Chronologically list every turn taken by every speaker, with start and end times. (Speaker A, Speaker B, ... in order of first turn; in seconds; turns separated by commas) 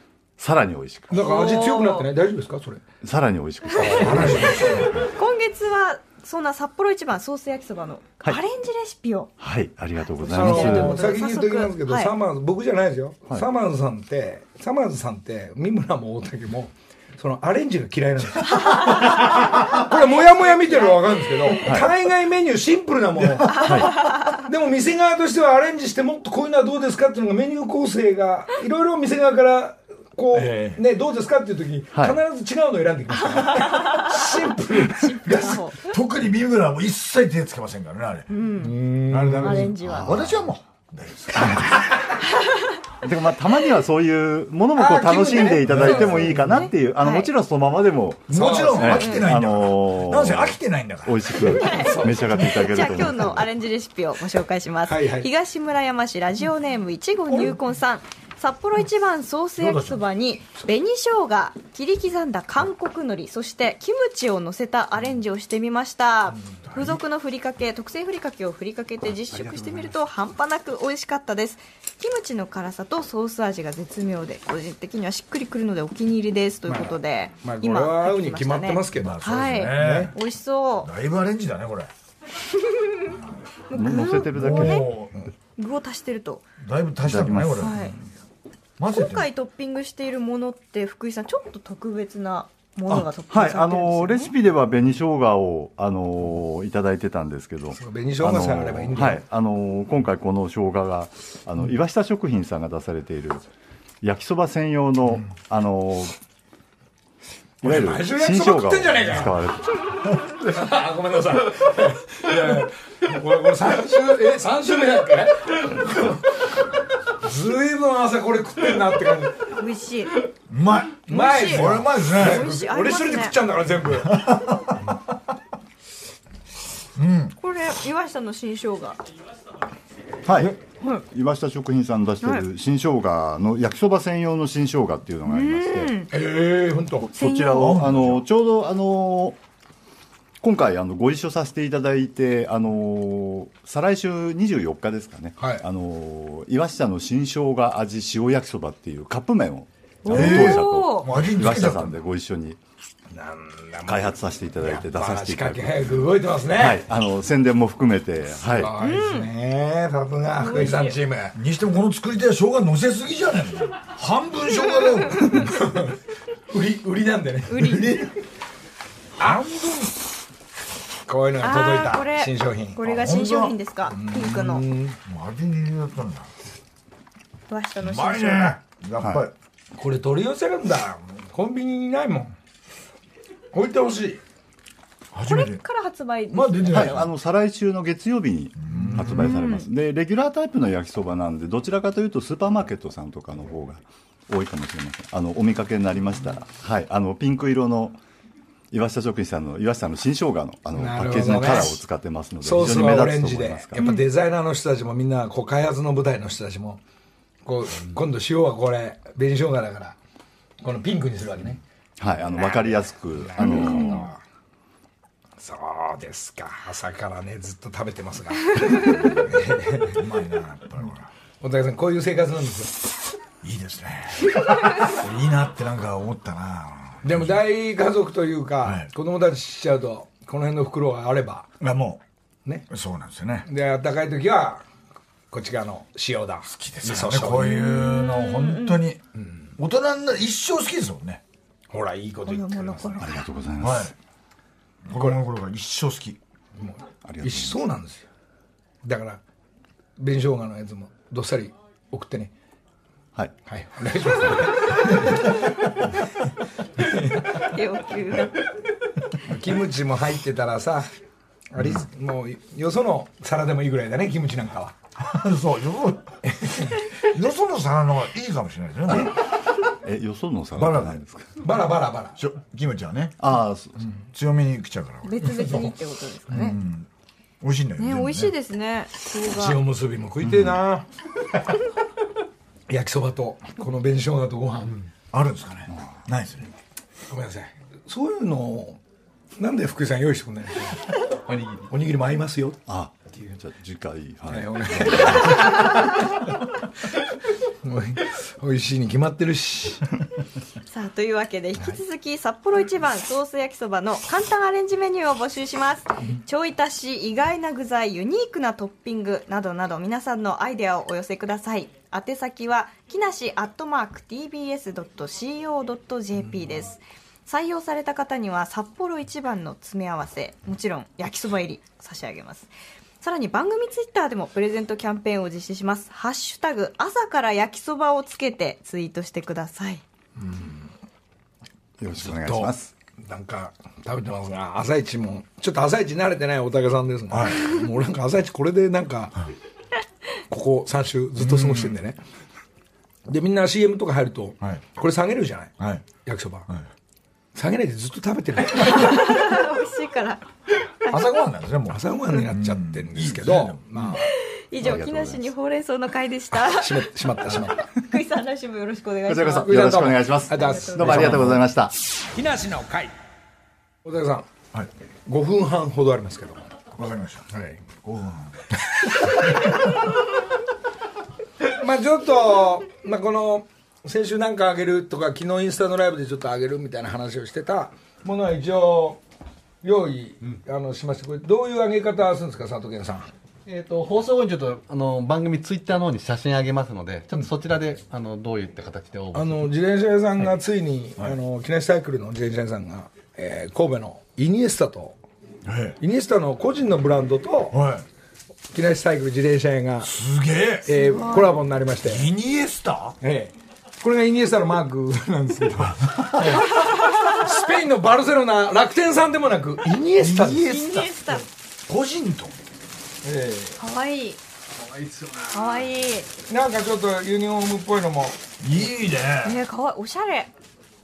Speaker A: 0.4-1.2, Speaker B: 1.1-2.8, Speaker C: 1.1-2.1, Speaker A: 3.0-5.1, Speaker C: 3.8-9.3, Speaker D: 3.8-4.9, Speaker B: 3.8-4.9, Speaker A: 9.4-11.1, Speaker C: 10.2-12.1, Speaker B: 10.3-35.7, Speaker C: 18.6-19.3, Speaker C: 20.2-21.6, Speaker A: 21.6-21.9, Speaker A: 23.5-24.0, Speaker C: 23.7-24.2, Speaker D: 30.3-30.8, Speaker A: 31.9-32.2, Speaker C: 33.7-34.0, Speaker C: 35.2-35.8, Speaker D: 35.8-38.3, Speaker C: 38.3-38.8, Speaker B: 38.6-39.7, Speaker D: 39.1-42.0, Speaker C: 39.4-40.2, Speaker A: 39.8-40.4, Speaker A: 43.0-53.5, Speaker B: 44.7-46.4, Speaker D: 45.6-46.2, Speaker C: 46.0-47.3, Speaker D: 48.3-51.4, Speaker B: 48.3-49.1, Speaker C: 48.9-49.3, Speaker C: 51.5-80.9, Speaker B: 51.7-52.7, Speaker B: 54.9-55.3, Speaker D: 59.6-60.0, Speaker D: 66.4-67.0, Speaker B: 76.7-80.1, Speaker D: 79.0-80.1, Speaker D: 80.8-81.9, Speaker C: 82.6-83.2, Speaker C: 83.7-84.9, Speaker A: 83.7-84.9, Speaker D: 84.3-85.2, Speaker C: 85.6-86.5, Speaker D: 86.6-87.8, Speaker A: 87.0-87.7, Speaker C: 87.5-88.0, Speaker D: 88.8-89.3, Speaker C: 88.9-94.3, Speaker A: 92.9-103.5, Speaker B: 97.7-99.2, Speaker A: 104.0-106.2, Speaker A: 107.6-109.9, Speaker B: 107.6-109.4, Speaker B: 110.3-116.4, Speaker B: 117.2-119.5, Speaker C: 119.5-120.1, Speaker D: 120.5-122.4, Speaker B: 121.0-124.4, Speaker C: 121.1-123.3, Speaker D: 123.9-124.9, Speaker D: 127.0-127.3, Speaker C: 127.4-129.0, Speaker A: 130.2-130.6, Speaker A: 131.1-136.0, Speaker C: 135.3-136.1, Speaker B: 136.1-137.1, Speaker A: 137.1-139.4, Speaker C: 137.1-137.9, Speaker D: 137.6-138.2, Speaker A: 140.4-152.6, Speaker B: 145.4-145.6, Speaker C: 150.0-151.1, Speaker D: 150.1-152.0, Speaker B: 153.1-156.8, Speaker A: 153.9-158.7, Speaker B: 158.4-161.3, Speaker C: 158.8-159.3, Speaker C: 160.4-160.9, Speaker D: 161.3-165.6, Speaker B: 165.3-165.9, Speaker B: 166.5-168.1, Speaker C: 167.5-168.1, Speaker D: 167.6-168.1, Speaker B: 169.2-169.9, Speaker D: 169.2-169.7, Speaker B: 171.1-173.2, Speaker C: 171.4-174.7, Speaker D: 172.8-173.5, Speaker B: 173.9-175.0, Speaker D: 175.0-176.3, Speaker C: 177.5-178.6, Speaker D: 177.8-179.3, Speaker B: 179.7-182.3, Speaker B: 183.5-184.2, Speaker D: 185.1-185.6, Speaker C: 185.3-187.0, Speaker D: 186.3-187.1, Speaker A: 186.7-198.0, Speaker D: 188.6-189.3, Speaker C: 189.2-189.7, Speaker A: 198.7-203.8, Speaker B: 200.7-201.8, Speaker B: 202.4-206.8, Speaker B: 207.4-210.0, Speaker B: 210.6-211.6, Speaker A: 212.0-214.1, Speaker B: 212.4-214.2, Speaker C: 213.4-214.0, Speaker B: 215.4-220.0, Speaker D: 219.9-221.1, Speaker B: 221.4-222.8, Speaker D: 223.4-227.4, Speaker B: 227.0-231.5, Speaker D: 228.6-228.9, Speaker D: 231.6-232.0, Speaker D: 232.7-233.4, Speaker B: 233.4-234.6, Speaker B: 235.3-237.5, Speaker D: 236.5-239.0, Speaker C: 237.4-238.8, Speaker D: 239.6-241.2, Speaker B: 241.7-243.1, Speaker C: 242.2-243.2, Speaker A: 243.0-243.9, Speaker D: 243.6-243.9, Speaker D: 244.8-246.2, Speaker B: 244.9-245.2, Speaker B: 246.6-248.1, Speaker A: 247.0-247.6, Speaker B: 248.8-249.2, Speaker B: 250.0-252.3, Speaker B: 253.5-255.3, Speaker B: 256.8-257.4, Speaker C: 257.3-258.5, Speaker B: 259.2-260.9, Speaker B: 261.5-264.7, Speaker D: 265.0-269.1, Speaker B: 266.2-266.8, Speaker A: 269.8-271.4, Speaker D: 270.6-271.0, Speaker B: 271.4-272.2, Speaker D: 272.1-273.2, Speaker A: 273.2-273.9, Speaker D: 273.8-275.2, Speaker C: 275.0-276.6, Speaker B: 275.2-275.8, Speaker D: 276.3-276.9, Speaker D: 277.4-278.3, Speaker C: 277.8-279.6, Speaker B: 279.2-280.9, Speaker A: 280.3-280.6, Speaker B: 282.7-284.9, Speaker D: 285.1-286.5, Speaker B: 287.1-288.8, Speaker B: 289.4-290.8, Speaker B: 291.7-292.6, Speaker A: 292.7-295.7, Speaker B: 294.3-296.2, Speaker B: 297.6-299.9, Speaker C: 300.6-322.5, Speaker C: 323.0-329.8, Speaker B: 330.2-330.7, Speaker A: 331.8-332.7, Speaker B: 332.0-339.2, Speaker D: 337.1-337.5, Speaker B: 340.3-342.0, Speaker D: 341.2-341.8, Speaker B: 343.1-346.5, Speaker D: 345.6-345.8, Speaker B: 347.3-349.2, Speaker C: 348.6-350.2, Speaker C: 350.8-351.1, Speaker D: 350.9-354.0, Speaker B: 351.7-354.1, Speaker C: 354.0-356.9, Speaker A: 354.6-355.3, Speaker B: 356.4-357.6, Speaker C: 357.6-361.3, Speaker A: 359.1-361.7, Speaker B: 359.4-361.4, Speaker B: 362.1-362.9, Speaker B: 363.8-364.3, Speaker B: 365.1-366.4, Speaker D: 366.7-367.3, Speaker B: 367.3-367.6, Speaker D: 367.8-368.4, Speaker B: 369.0-369.4, Speaker B: 371.4-379.0, Speaker B: 379.6-383.1, Speaker E: 383.4-389.5, Speaker B: 389.1-395.0, Speaker D: 395.4-395.8, Speaker B: 395.8-397.6, Speaker D: 397.5-397.8, Speaker B: 398.5-399.9, Speaker D: 399.8-400.7, Speaker B: 400.6-402.1, Speaker C: 400.7-401.4, Speaker D: 401.8-403.0, Speaker B: 403.0-410.4, Speaker D: 405.6-406.4, Speaker D: 410.0-412.4, Speaker C: 410.3-411.2, Speaker B: 413.0-413.6, Speaker C: 413.6-414.2, Speaker B: 414.6-415.3, Speaker C: 415.3-416.1, Speaker B: 416.3-418.2, Speaker D: 418.4-419.4, Speaker C: 419.2-420.3